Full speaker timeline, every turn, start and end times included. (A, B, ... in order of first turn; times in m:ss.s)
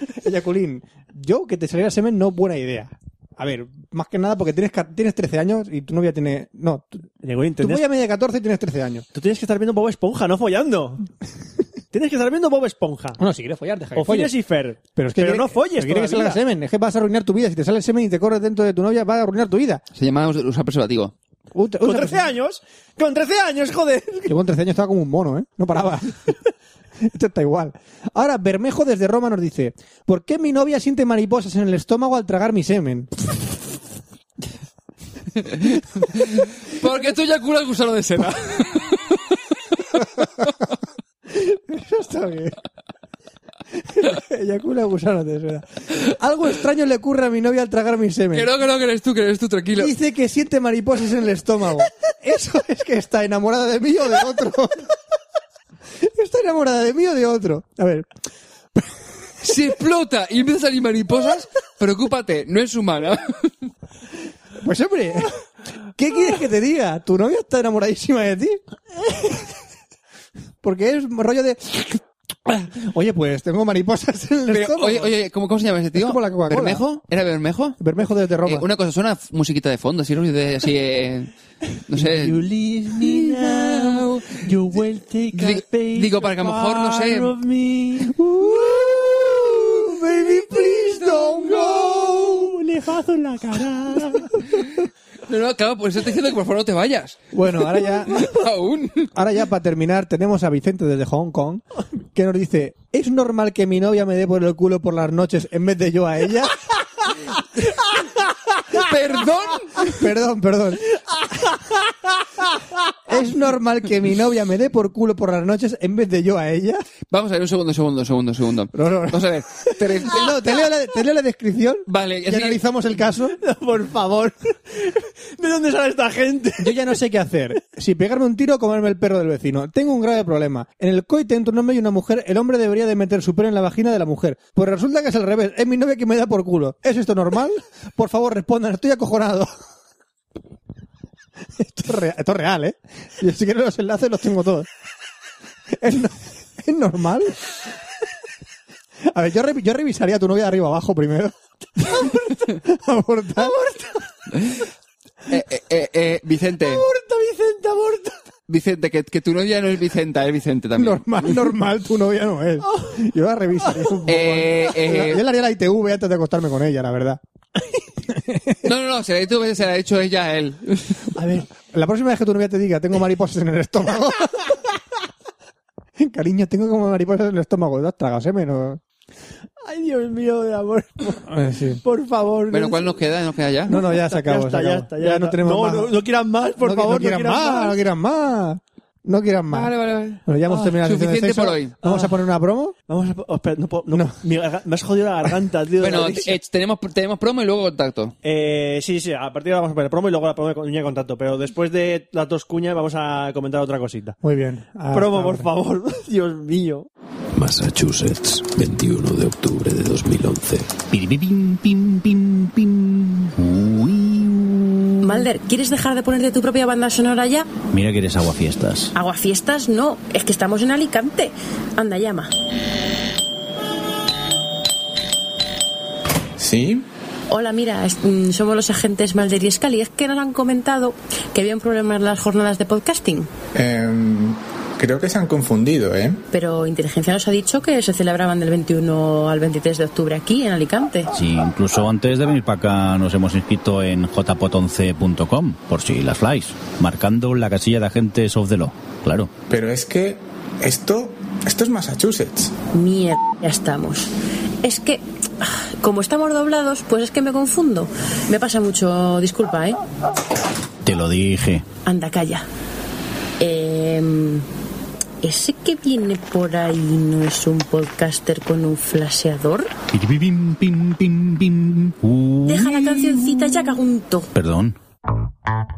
0:00.2-0:07.1 A
0:07.2-0:07.8 B
0:07.6-0:09.0 A
0:09.1-0:11.1 B
0:11.9-0:13.2 B
0:13.2-0:14.4 A
0:14.0-0:16.4 B
0:15.0-0:19.8 A
0:20.0-0:21.1 C
0:21.5-0:22.3 A
0:21.8-0:24.4 B
0:24.3-0:26.3 A
0:27.0-0:33.1 A
0:35.4-0:39.4 C
0:39.9-0:40.4 A
0:41.3-0:42.6 A
0:43.8-0:48.5 A
0:48.3-0:49.9 C
0:49.8-0:54.9 A
0:56.0-0:58.1 A
0:58.8-0:59.1 A
0:59.4-1:03.5 C
1:04.6-1:05.4 A
1:06.0-1:08.6 A
1:10.6-1:15.1 A
1:14.5-1:17.8 C
1:16.0-1:16.8 A
1:17.8-1:18.6 A
1:18.4-1:21.3 C
1:21.9-1:22.4 C
1:22.0-1:34.4 B
1:23.3-1:24.4 C
1:25.3-1:27.4 C
1:28.2-1:32.6 A
1:35.3-1:39.1 C
1:37.3-1:38.3 A
1:39.2-1:41.6 A
1:42.1-1:47.1 A
1:48.7-1:49.9 C
1:49.8-1:56.9 A
1:57.1-2:00.3 C
1:58.7-2:03.4 A
2:01.9-2:02.6 C
2:03.1-2:07.0 B
2:06.6-2:19.6 A
2:21.6-2:24.7 A
2:25.7-2:27.4 A
2:29.0-2:33.6 A
2:31.8-2:32.6 B
2:33.4-2:34.1 B
2:35.3-2:36.8 C
2:36.6-2:38.2 B
2:38.5-2:41.5 C
2:40.8-2:47.2 A
2:42.6-2:44.1 B
2:44.1-2:45.2 C
2:48.1-2:48.6 A
2:48.6-2:51.1 C
2:51.2-2:54.6 A
2:56.0-2:58.8 A
2:59.6-3:03.0 B
3:01.3-3:01.8 A
3:02.5-3:03.7 C
3:03.7-3:07.8 B
3:03.7-3:06.0 A
3:06.6-3:09.7 A
3:09.5-3:11.8 C
3:10.2-3:12.8 A
3:11.8-3:12.3 B
3:12.9-3:16.4 B
3:13.9-3:14.2 A
3:15.8-3:18.1 C
3:18.2-3:24.2 B
3:24.2-3:25.5 A
3:24.9-3:26.9 B
3:27.3-3:30.8 D
3:30.9-3:35.2 E
3:35.0-3:37.5 F
3:37.7-3:38.9 E
3:39.0-3:42.3 F
3:46.4-3:46.9 G
3:47.3-3:53.3 F
3:53.5-3:56.2 G
3:56.3-4:01.1 F
4:01.2-4:09.3 E
4:09.5-4:12.6 G
4:12.7-4:14.1 F
4:14.6-4:19.8 F
4:20.8-4:21.6 E
4:21.8-4:22.5 F
4:23.4-4:24.5 F
4:25.2-4:29.7 F
4:29.9-4:33.6 E
4:32.4-4:34.3 F
4:34.3-4:34.8 E